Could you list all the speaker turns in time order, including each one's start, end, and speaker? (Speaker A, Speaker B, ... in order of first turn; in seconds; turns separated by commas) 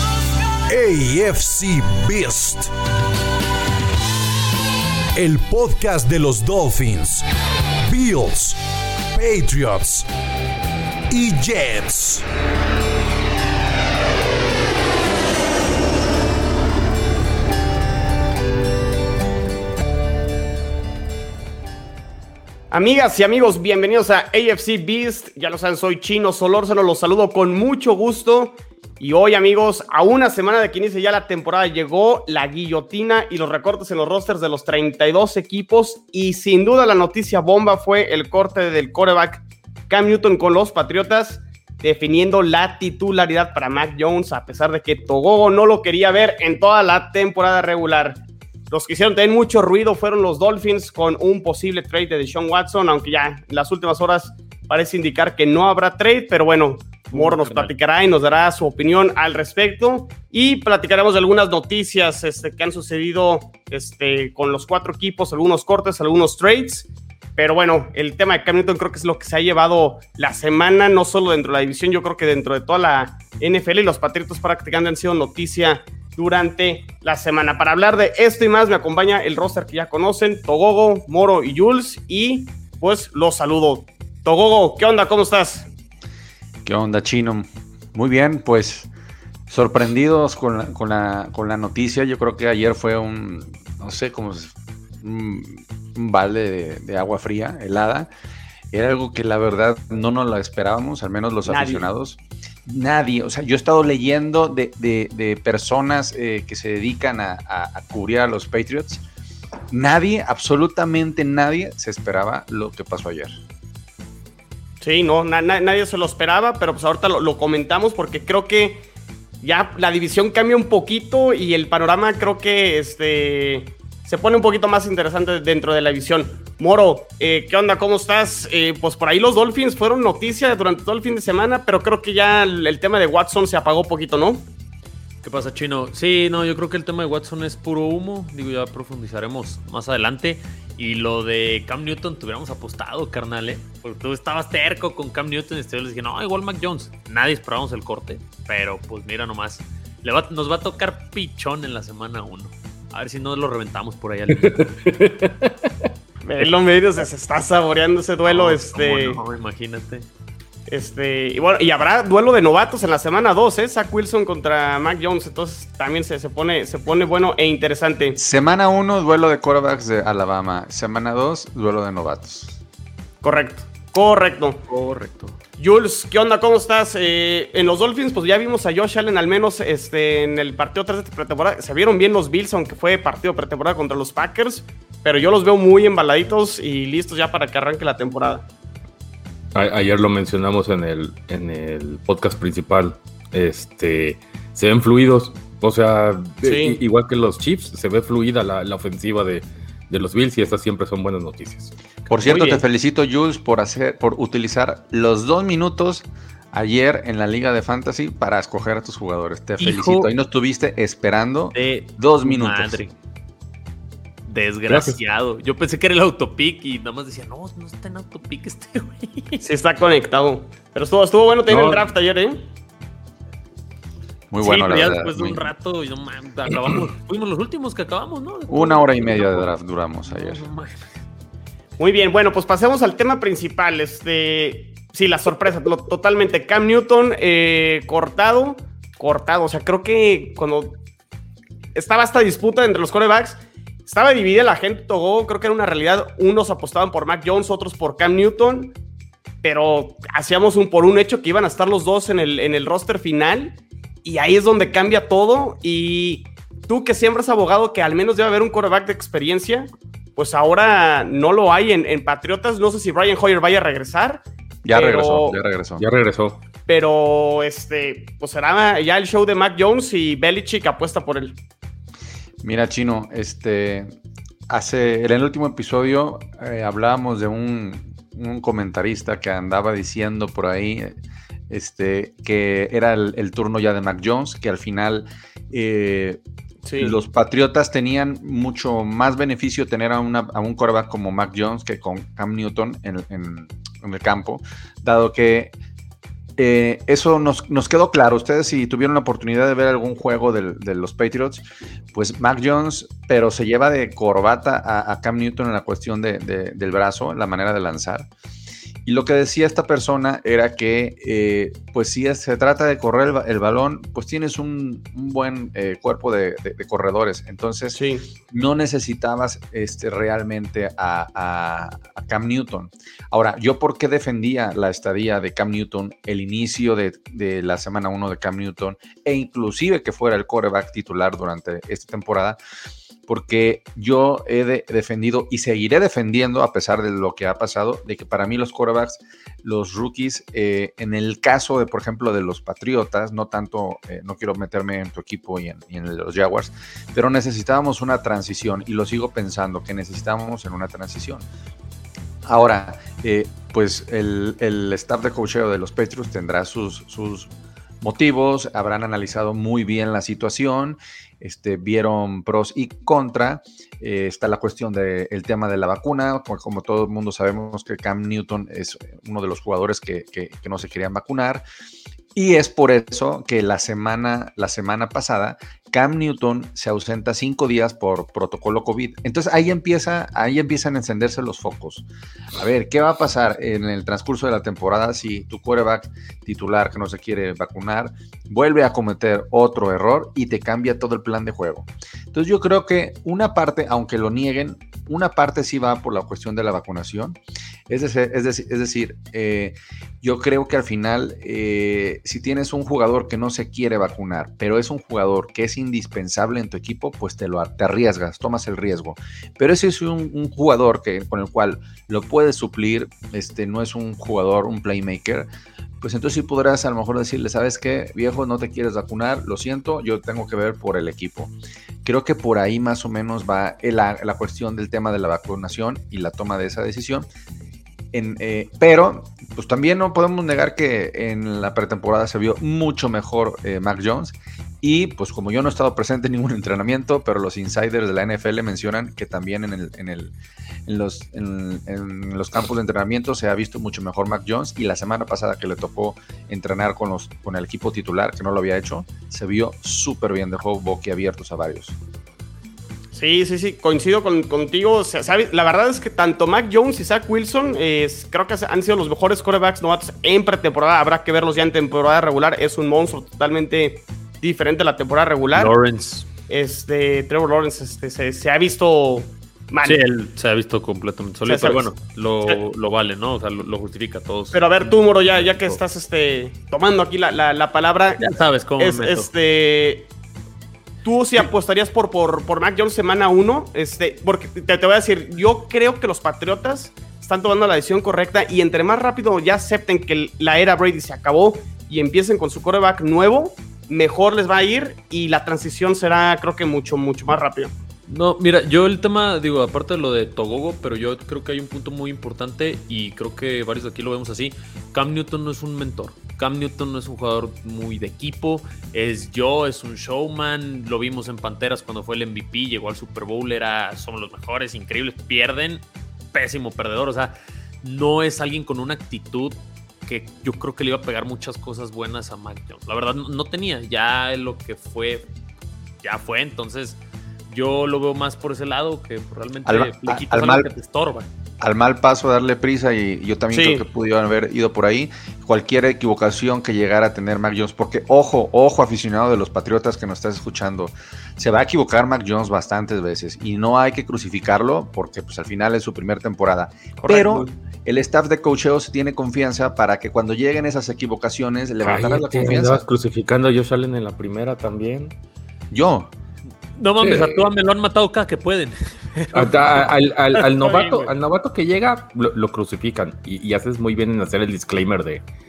Speaker A: 0.7-2.7, Speaker A: 5.2-7.2, Speaker A: 7.8-8.6, Speaker A: 9.1-10.1, Speaker A: 11.1-12.2, Speaker B: 22.7-85.7, Speaker C: 57.1-57.7, Speaker D: 86.6-88.9, Speaker D: 89.5-98.1, Speaker D: 98.7-109.0, Speaker B: 101.5-101.8, Speaker D: 109.7-113.4, Speaker B: 114.8-118.8, Speaker B: 119.4-134.5, Speaker C: 135.2-154.7, Speaker E: 154.4-155.5, Speaker B: 156.2-159.2, Speaker C: 158.2-160.1, Speaker B: 160.7-168.2, Speaker D: 168.2-172.6, Speaker B: 173.2-174.6, Speaker C: 174.7-175.3, Speaker B: 175.6-188.4, Speaker E: 189.5-201.7, Speaker B: 196.4-196.8, Speaker C: 202.1-202.6, Speaker D: 202.1-212.8, Speaker C: 209.6-210.1, Speaker C: 211.5-212.9, Speaker C: 214.3-219.4, Speaker E: 214.7-215.0, Speaker B: 219.4-222.4, Speaker E: 221.5-221.9, Speaker D: 224.3-225.5, Speaker C: 224.4-229.5, Speaker D: 228.5-230.4, Speaker C: 230.0-230.8, Speaker B: 231.8-240.8, Speaker B: 241.7-248.7, Speaker B: 249.4-265.4, Speaker D: 264.6-265.8, Speaker E: 265.8-266.4, Speaker B: 266.7-271.4, Speaker D: 272.4-273.9, Speaker D: 274.5-281.0, Speaker D: 281.5-286.2, Speaker B: 286.6-286.9, Speaker D: 286.8-295.5, Speaker D: 296.4-308.1, Speaker D: 308.8-332.4, Speaker B: 317.7-318.1, Speaker D: 333.1-351.3, Speaker D: 352.2-357.3, Speaker D: 357.8-371.4, Speaker D: 372.1-381.8, Speaker D: 382.4-397.2, Speaker D: 397.7-415.3, Speaker D: 415.8-421.3, Speaker D: 421.8-427.1, Speaker D: 427.9-440.1, Speaker D: 440.6-451.8, Speaker B: 452.9-465.5, Speaker C: 465.3-466.1, Speaker B: 466.3-469.8, Speaker C: 469.6-475.6, Speaker B: 471.2-471.7, Speaker B: 474.3-479.9, Speaker C: 478.0-479.1, Speaker B: 480.8-497.5, Speaker C: 497.9-525.1, Speaker C: 525.8-531.1, Speaker D: 529.4-530.5, Speaker D: 531.4-552.6, Speaker B: 533.3-533.6, Speaker B: 546.8-547.3, Speaker E: 551.6-554.9, Speaker D: 555.5-555.9, Speaker C: 556.5-559.6, Speaker E: 556.8-557.3, Speaker E: 559.1-565.0, Speaker B: 560.4-560.9